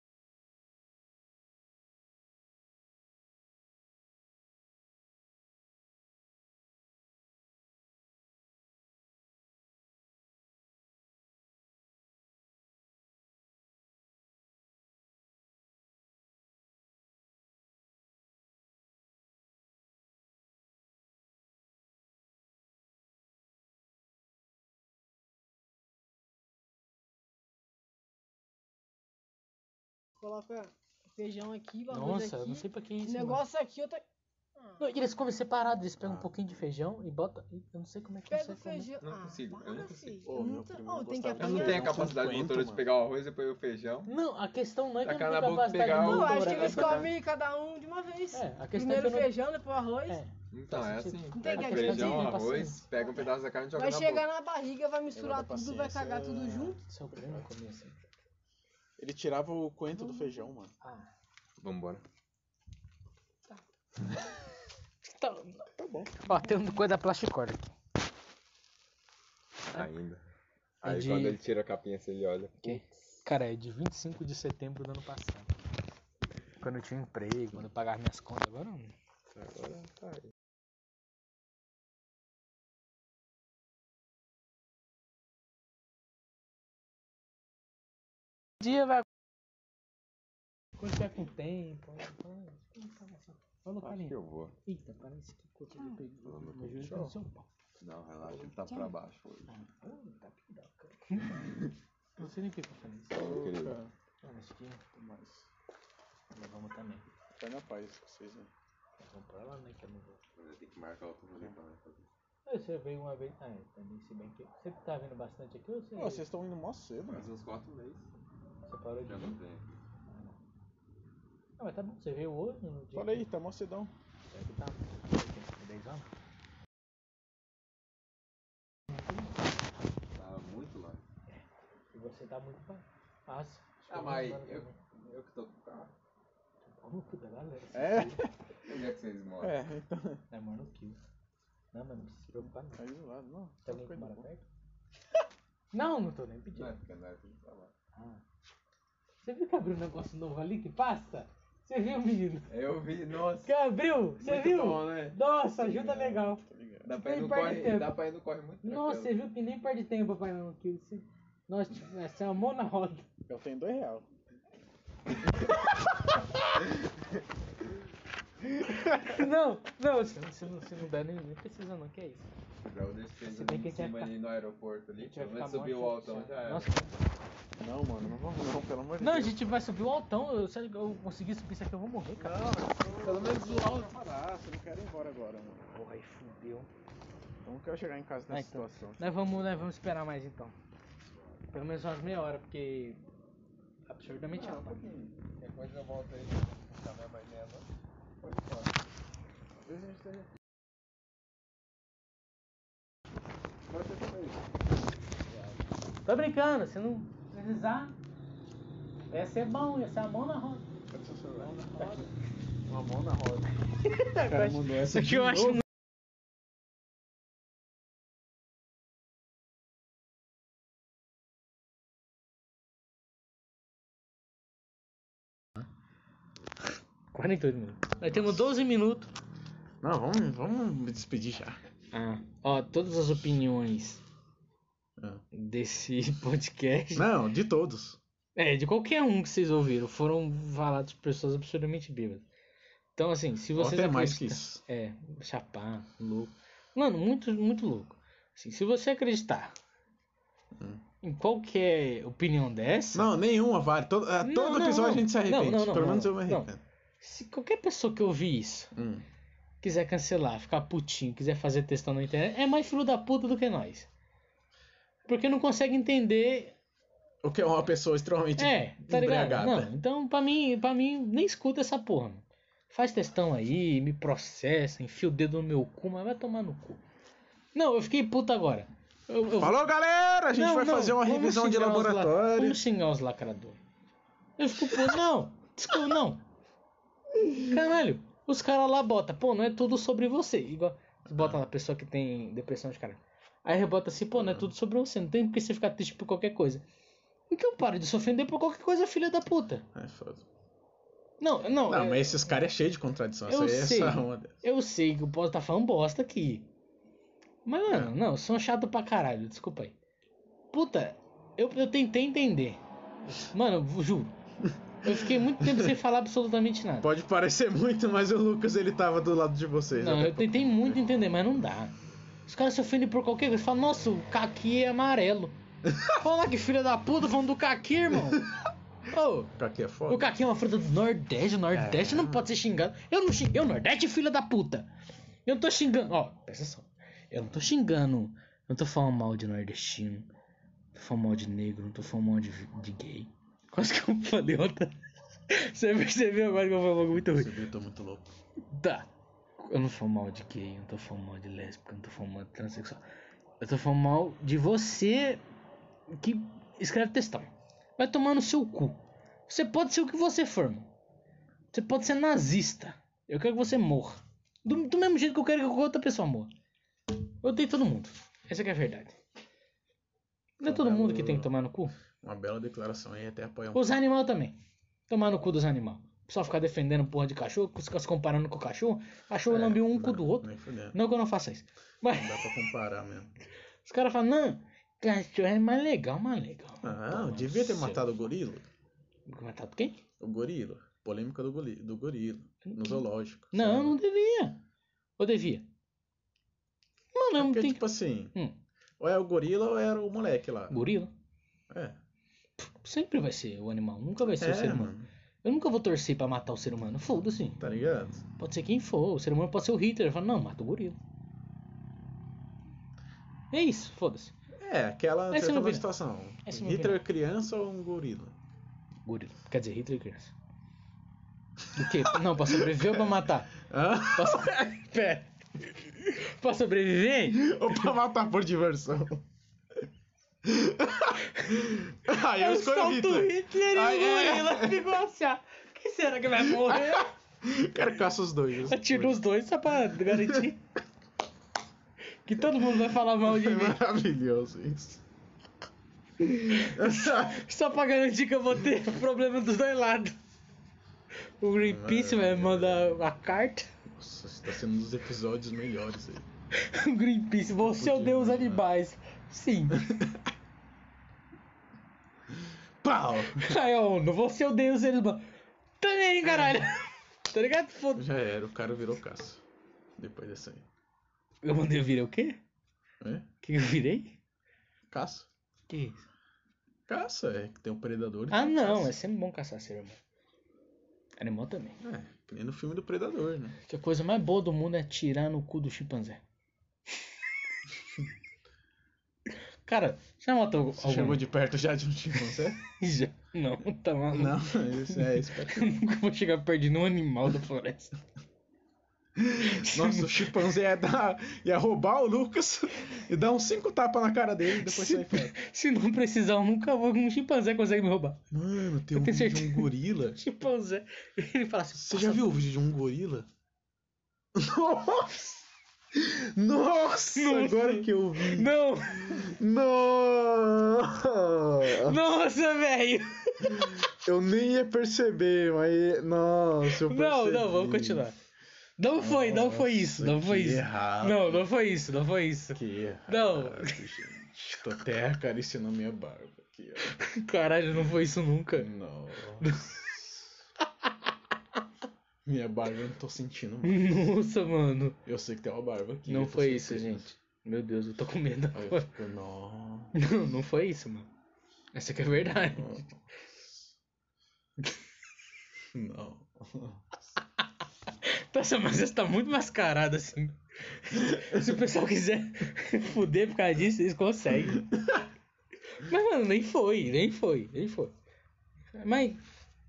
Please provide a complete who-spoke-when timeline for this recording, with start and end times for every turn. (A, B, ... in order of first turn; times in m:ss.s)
0:30.2-0:34.0 A
0:31.9-0:33.4 B
0:34.8-0:38.9 B
0:36.0-0:36.3 C
0:38.3-0:42.1 A
0:39.0-0:40.2 D
0:40.2-0:42.9 C
0:41.4-0:44.1 D
0:44.1-0:47.1 B
0:45.0-0:47.1 D
0:45.8-0:50.2 A
0:48.3-0:49.3 B
0:50.1-0:52.8 B
0:50.5-0:54.2 D
0:51.3-0:52.4 A
0:53.7-0:56.8 A
0:55.1-0:57.5 C
0:56.9-0:58.0 B
0:59.0-1:00.7 C
1:00.8-1:01.1 B
1:01.6-1:02.0 D
1:05.0-1:05.6 B
1:05.8-1:06.3 C
1:06.2-1:07.7 B
1:09.7-1:10.2 D
1:10.8-1:12.7 D
1:10.8-1:11.4 B
1:12.6-1:15.5 B
1:16.6-1:18.9 B
1:19.4-1:20.2 D
1:30.8-1:37.4 B
1:33.8-1:34.5 D
1:36.2-1:36.9 D
1:36.8-1:37.1 C
1:37.8-1:39.5 D
1:39.5-1:41.4 B
1:42.2-1:43.2 B
1:43.1-1:43.8 D
1:43.2-1:43.9 C
1:44.2-1:44.8 B
1:44.9-1:45.5 C
1:46.3-1:47.0 B
1:47.4-1:48.5 C
1:49.0-1:50.2 B
1:50.4-1:52.1 D
1:52.4-1:56.2 B
1:55.9-1:57.3 C
1:57.1-1:58.0 D
1:58.7-1:59.4 B
1:59.0-1:59.6 D
2:00.1-2:00.4 B
2:01.6-2:03.3 B
2:02.9-2:03.9 C
2:04.3-2:06.1 B
2:10.1-2:11.0 D
2:11.9-2:14.8 B
2:13.9-2:15.9 D
2:16.6-2:18.2 B
2:17.7-2:18.3 C
2:18.6-2:19.6 D
2:19.4-2:20.2 C
2:20.3-2:21.0 B
2:21.7-2:22.8 B
2:22.4-2:24.3 C
2:23.6-2:24.4 B
2:25.7-2:26.7 B
2:26.5-2:27.7 D
2:27.9-2:28.2 B
2:29.2-2:32.5 B
2:32.5-2:33.5 D
2:33.4-2:36.4 B
2:34.2-2:36.1 D
2:35.8-2:36.9 C
2:36.8-2:39.2 D
2:36.9-2:38.0 B
2:38.6-2:43.0 B
2:43.3-2:44.1 C
2:48.8-2:52.3 B
2:52.6-2:56.7 D
2:53.2-2:54.1 B
2:55.0-2:56.9 B
2:57.6-2:59.4 C
2:59.0-3:02.4 B
3:02.2-3:05.8 C
3:03.2-3:03.8 D
3:05.7-3:06.7 B
3:07.4-3:09.4 C
3:08.3-3:10.5 B
3:11.5-3:13.0 B
3:13.9-3:14.8 B
3:14.3-3:15.2 C
3:15.4-3:17.7 D
3:18.2-3:18.7 C
3:19.6-3:20.3 C
3:23.7-3:24.5 C
3:26.0-3:27.9 B
3:29.1-3:30.6 B
3:30.9-3:32.0 C
3:31.8-3:32.0 B
3:32.7-3:33.5 C
3:33.9-3:35.6 B
3:34.2-3:35.4 C
3:47.1-3:49.1 B
3:48.0-3:48.3 C
3:49.8-3:51.6 C
3:51.9-3:54.0 B
3:55.0-3:55.2 C
3:55.3-3:57.1 B
3:56.9-3:58.0 C
3:58.4-4:02.2 B
4:03.0-4:09.5 B
4:03.5-4:04.6 C
4:10.5-4:10.8 C
4:11.0-4:13.1 B
4:12.9-4:16.6 C
4:14.2-4:16.5 B
4:17.0-4:18.7 B
4:18.7-4:19.0 C
4:19.6-4:23.9 B
4:25.1-4:26.5 B
4:27.2-4:29.7 C
4:28.4-4:36.8 B
4:37.5-4:39.7 B
4:39.3-4:42.6 C
4:40.3-4:43.6 B
4:44.4-4:46.2 B
4:47.4-4:56.6 B
4:51.1-4:51.4 C
4:54.1-4:54.5 C
4:57.3-4:59.6 B
4:59.7-5:00.2 C
5:01.2-5:02.2 B
5:01.6-5:04.4 C
5:03.3-5:06.5 B
5:07.4-5:09.7 B
5:10.5-5:14.1 B
5:14.4-5:15.8 C
5:14.8-5:16.9 B
5:16.8-5:20.8 C
5:19.8-5:21.7 B
5:22.3-5:25.3 B
5:25.7-5:25.9 C
5:26.0-5:28.2 B
5:28.9-5:29.3 B
5:29.4-5:30.1 C
5:29.9-5:34.7 B
5:31.5-5:32.3 C
5:35.2-5:40.1 B
5:40.7-5:44.8 B
5:45.3-5:47.4 B
5:46.9-5:48.1 C
5:48.5-5:48.9 B
5:49.4-5:52.8 B
5:53.4-5:55.2 B
5:55.9-6:00.7 B
6:01.5-6:06.3 B
6:07.2-6:09.0 B
6:10.4-6:11.7 B
6:10.4-6:11.4 C
6:12.0-6:13.8 C
6:13.5-6:14.4 B
6:14.9-6:22.3 B
6:19.3-6:20.8 C
6:21.9-6:23.1 C
6:23.6-6:27.9 B
6:26.6-6:28.5 C
6:29.1-6:29.8 B
6:30.0-6:33.8 C
6:32.4-6:34.4 B
6:35.0-6:35.5 B
6:36.9-6:38.4 B
6:37.2-6:38.1 C
6:38.8-6:40.7 C
6:40.5-6:40.9 B
6:41.5-6:41.8 C
6:42.4-6:44.7 B
6:44.0-6:44.9 C
6:45.2-6:47.4 B
6:47.4-6:48.0 C
6:48.2-6:50.8 B
6:53.3-6:54.1 B
6:54.4-6:58.2 C
6:55.1-6:55.7 B
6:56.2-6:56.8 B
6:58.8-7:00.1 B
7:01.5-7:03.4 B
7:01.6-7:02.9 C
7:03.4-7:04.3 C
7:03.9-7:07.3 B
7:07.1-7:09.0 C
7:10.2-7:14.6 C
7:12.1-7:16.9 B
7:16.2-7:19.0 C
7:18.5-7:20.4 B
7:19.9-7:20.3 C
7:22.0-7:23.6 B
7:22.9-7:24.8 C
7:26.0-7:27.2 C
7:26.3-7:29.9 B
7:31.2-7:33.5 B
7:31.4-7:32.8 C
7:33.7-7:36.1 C
7:36.4-7:39.6 B
7:37.4-7:38.5 C
7:39.5-7:40.0 C
7:42.6-7:43.4 C
7:43.1-7:45.0 B
7:45.6-7:47.9 B
7:46.0-7:46.4 C
7:47.7-7:49.2 C
7:49.8-7:50.4 C
7:51.2-7:52.2 B
7:52.8-7:53.1 C
7:53.2-7:54.0 B
7:54.7-7:55.1 C
7:55.5-7:55.8 B
7:56.7-7:58.7 C
7:58.1-7:59.8 B
8:01.0-8:01.6 B
8:01.6-8:03.4 C
8:03.5-8:06.0 B
8:09.4-8:11.0 B
8:10.6-8:12.4 C
8:12.5-8:17.7 B
8:13.9-8:15.6 C
8:19.0-8:25.1 C
8:19.3-8:20.1 B
8:24.3-8:28.0 B
8:28.1-8:30.0 C
8:28.7-8:32.1 B
8:31.6-8:33.1 C
8:34.1-8:35.0 C
8:35.7-8:41.8 C
8:37.0-8:39.1 B
8:41.5-8:43.6 B
8:43.2-8:47.9 C
8:46.5-8:47.9 B
8:48.6-8:53.6 B
8:48.8-8:51.2 C
8:52.3-8:56.7 C
8:56.6-8:58.5 B
8:58.3-8:59.9 C
8:59.2-8:59.5 B
9:02.0-9:03.9 C
9:03.4-9:04.8 B
9:04.8-9:06.9 C
9:05.9-9:08.7 B
9:08.3-9:09.7 C
9:09.7-9:10.9 B
9:11.5-9:12.6 B
9:11.9-9:13.5 C
9:15.5-9:16.6 C
9:17.7-9:24.4 B
9:24.6-9:24.8 C
9:25.6-9:27.7 B
9:28.5-9:29.0 B